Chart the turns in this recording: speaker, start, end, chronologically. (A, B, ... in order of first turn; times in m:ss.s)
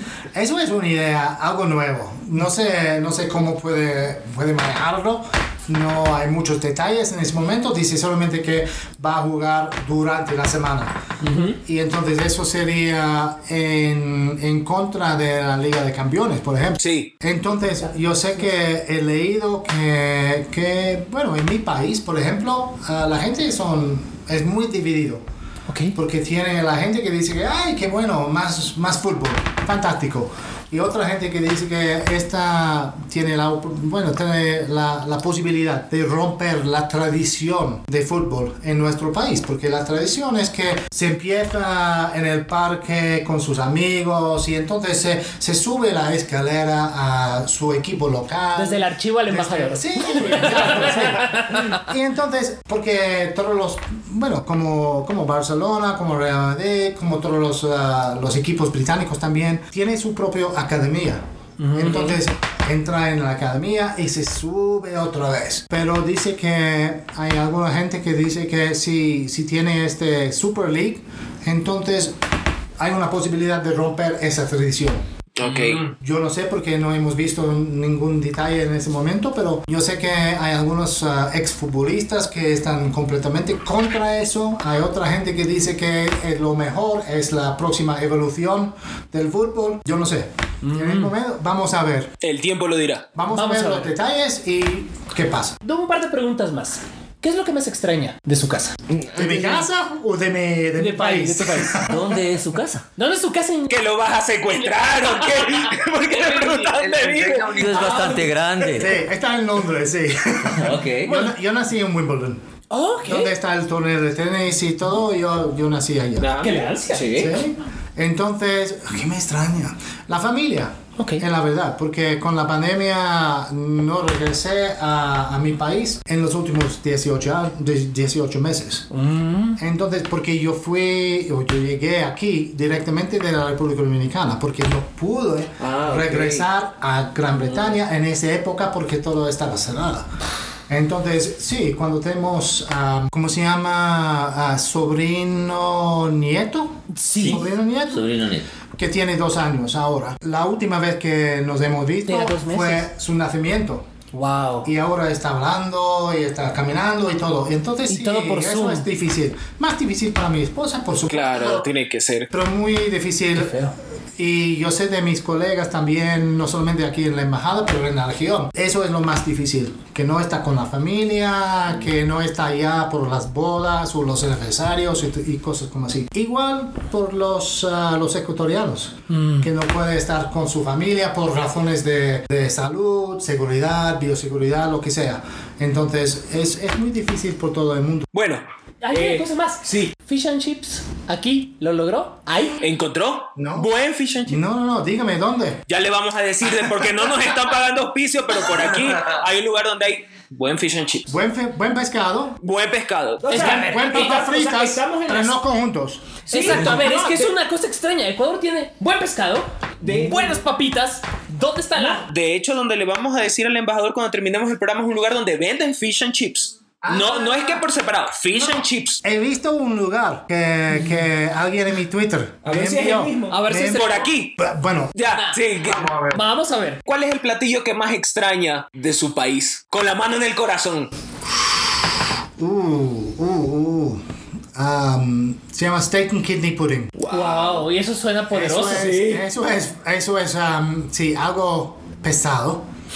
0:00.3-0:11.0 A
0:11.2-0:11.6 B
0:11.5-0:25.2 A
0:16.8-0:17.1 C
0:25.7-0:26.0 B
0:25.9-1:01.2 A
0:48.5-0:51.8 B
1:01.6-1:02.2 B
1:01.7-1:12.2 A
1:12.8-1:15.0 A
1:15.4-1:15.8 C
1:15.4-1:15.9 B
1:15.9-1:32.1 A
1:30.6-1:31.1 B
1:32.2-1:33.0 C
1:33.1-1:35.6 A
1:33.3-1:33.9 B
1:35.6-1:39.3 B
1:38.9-1:39.5 D
1:39.1-1:42.2 A
1:40.8-1:41.8 B
1:41.8-1:42.8 D
1:43.0-1:43.8 B
1:43.7-1:48.3 C
1:44.5-1:46.7 B
1:46.7-1:49.0 D
1:47.8-1:48.2 B
1:48.7-1:52.4 A
1:50.4-1:51.1 D
1:51.0-1:51.3 B
1:52.7-1:53.3 B
1:53.0-1:56.3 A
1:56.2-1:57.3 C
1:56.4-1:57.2 B
1:57.0-2:08.9 A
2:01.0-2:01.2 B
2:08.9-2:09.6 B
2:09.6-2:20.1 A
2:15.6-2:16.4 C
2:20.7-2:28.0 A
2:26.9-2:27.4 B
2:27.9-2:28.5 D
2:28.7-2:33.9 A
2:32.0-2:32.9 B
2:34.1-2:34.7 B
2:34.6-2:41.7 A
2:37.9-2:38.9 B
2:41.1-2:42.3 C
2:42.3-2:43.6 A
2:43.4-2:43.7 B
2:44.2-3:08.1 A
2:59.1-2:59.5 B
3:08.1-3:09.9 C
3:08.8-3:12.6 B
3:12.6-3:14.4 C
3:13.4-3:13.7 A
3:14.3-3:15.6 A
3:15.7-3:21.2 C
3:21.1-3:22.4 A
3:22.4-3:25.4 C
3:23.3-3:24.0 B
3:23.4-3:26.2 A
3:26.3-3:32.0 B
3:26.3-3:27.3 C
3:29.8-3:30.3 C
3:31.8-3:39.0 C
3:39.0-3:44.9 A
3:42.4-3:44.4 C
3:43.3-3:44.1 B
3:44.9-3:46.1 C
3:45.1-3:45.4 B
3:45.6-3:46.2 A
3:46.1-3:46.8 B
3:46.8-3:50.9 C
3:52.4-3:54.0 A
3:54.5-3:56.9 A
3:57.0-3:57.6 C
3:57.1-3:59.0 B
3:58.3-4:02.7 A
3:58.6-3:59.2 C